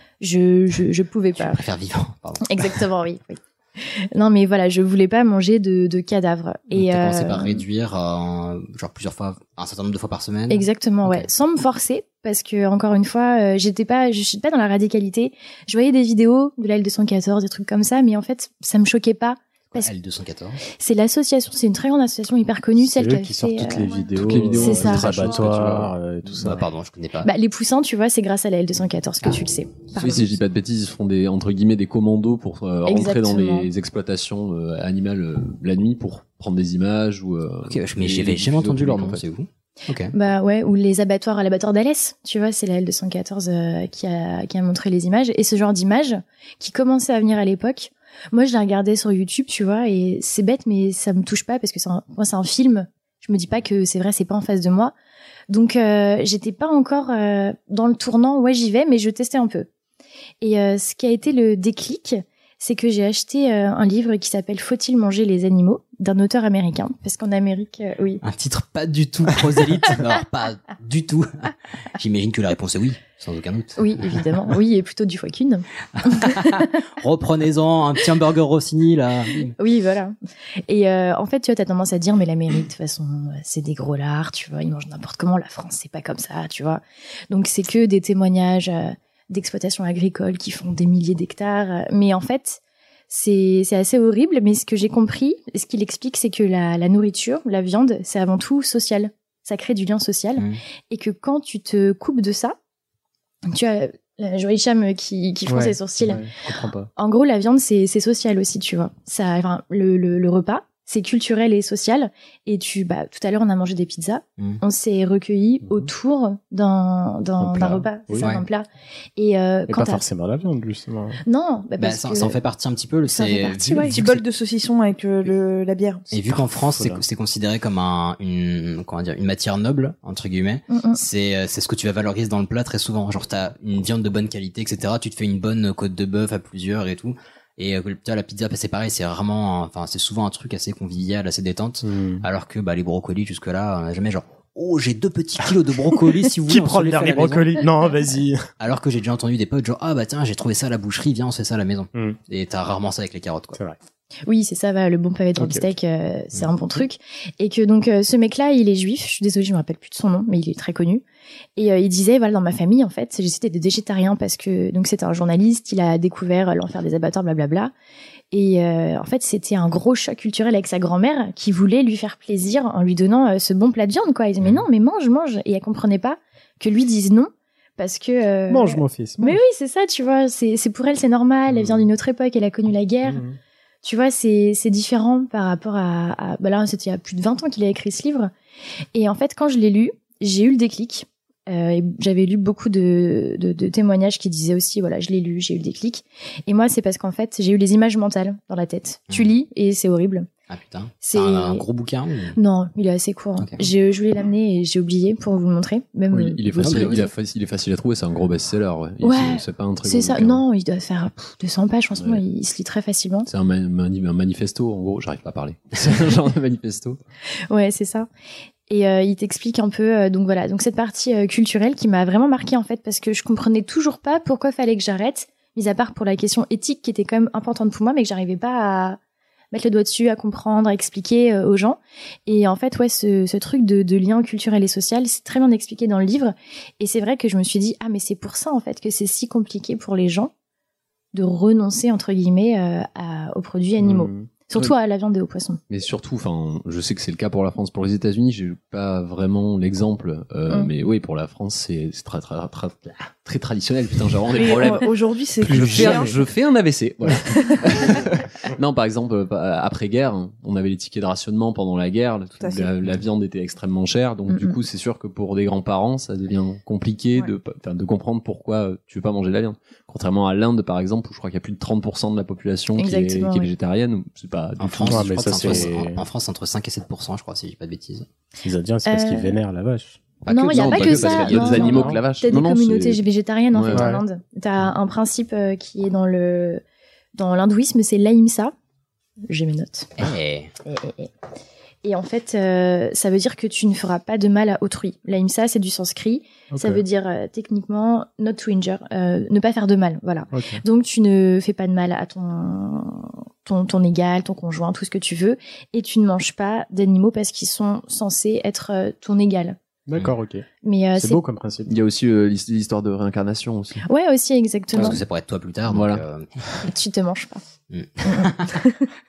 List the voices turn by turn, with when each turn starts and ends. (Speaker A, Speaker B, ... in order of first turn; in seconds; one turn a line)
Speaker A: 0.2-1.6
Speaker B: 1.4-2.8
Speaker A: 2.4-7.6
Speaker B: 6.7-11.3
Speaker A: 10.5-19.9
Speaker B: 19.7-20.6
Speaker A: 20.7-25.4
Speaker C: 22.8-26.6
Speaker D: 24.1-25.9
Speaker B: 26.4-27.3
Speaker A: 27.2-30.3
Speaker D: 29.9-39.2
Speaker A: 32.8-33.7
Speaker B: 37.7-40.1
Speaker A: 40.1-54.9
Speaker A: 55.5-59.7
Speaker A: 60.4-68.2
Speaker B: 68.2-74.3
Speaker A: 73.8-75.6
Speaker B: 76.0-79.5
Speaker A: 79.6-80.2
Speaker A: 80.7-102.5
Speaker A: 103.5-106.3
Speaker C: 105.5-106.9
Speaker A: 107.0-120.0
Speaker C: 115.6-115.9
Speaker C: 117.4-118.3
Speaker B: 118.2-118.4
Speaker C: 119.7-121.2
Speaker A: 121.2-122.4
Speaker B: 121.8-124.2
Speaker A: 123.1-124.0
Speaker E: 123.9-126.0
Speaker B: 126.1-147.6
Speaker C: 126.3-127.0
Speaker A: 130.7-131.0
Speaker C: 141.8-142.2
Speaker C: 146.5-148.5
Speaker B: 148.6-153.6
Speaker A: 154.3-161.0
Speaker C: 155.4-155.7
Speaker A: 161.6-167.7
Speaker A: 168.3-183.2
Speaker C: 178.5-179.4
Speaker C: 183.0-183.4
Speaker A: 183.8-188.3
Speaker A: 188.9-200.3
Speaker B: 200.5-202.4
Speaker A: 201.0-201.6
Speaker A: 202.3-207.1
Speaker B: 203.4-203.7
Speaker D: 206.1-210.4
Speaker B: 206.6-207.1
Speaker A: 209.0-213.3
Speaker D: 213.2-217.0
Speaker A: 217.5-218.1
Speaker A: 218.7-229.0
Speaker A: 229.5-240.3
Speaker A: 241.1-245.6
Speaker C: 243.8-244.3
Speaker D: 245.7-254.9
Speaker E: 254.3-256.1
Speaker D: 255.4-275.7
Speaker C: 255.6-256.1
Speaker E: 262.4-262.7
Speaker A: 264.3-264.6
Speaker A: 272.7-273.5
Speaker B: 274.6-278.1
Speaker C: 274.9-276.0
Speaker C: 278.4-280.0
Speaker A: 278.9-279.4
Speaker B: 280.2-281.7
Speaker A: 280.3-286.6
Speaker D: 280.3-283.9
Speaker C: 281.2-282.0
Speaker C: 283.7-284.0
Speaker A: 287.1-288.5
Speaker A: 289.3-289.9
Speaker B: 290.0-290.5
Speaker A: 290.6-291.1
Speaker A: 291.8-309.6
Speaker C: 296.5-296.8
Speaker C: 300.3-300.6
Speaker C: 309.9-311.7
Speaker A: 310.6-311.2
Speaker D: 311.7-313.8
Speaker A: 313.9-315.0
Speaker B: 314.7-316.4
Speaker D: 315.7-316.0
Speaker A: 316.6-317.4
Speaker B: 317.7-318.6
Speaker A: 318.0-318.8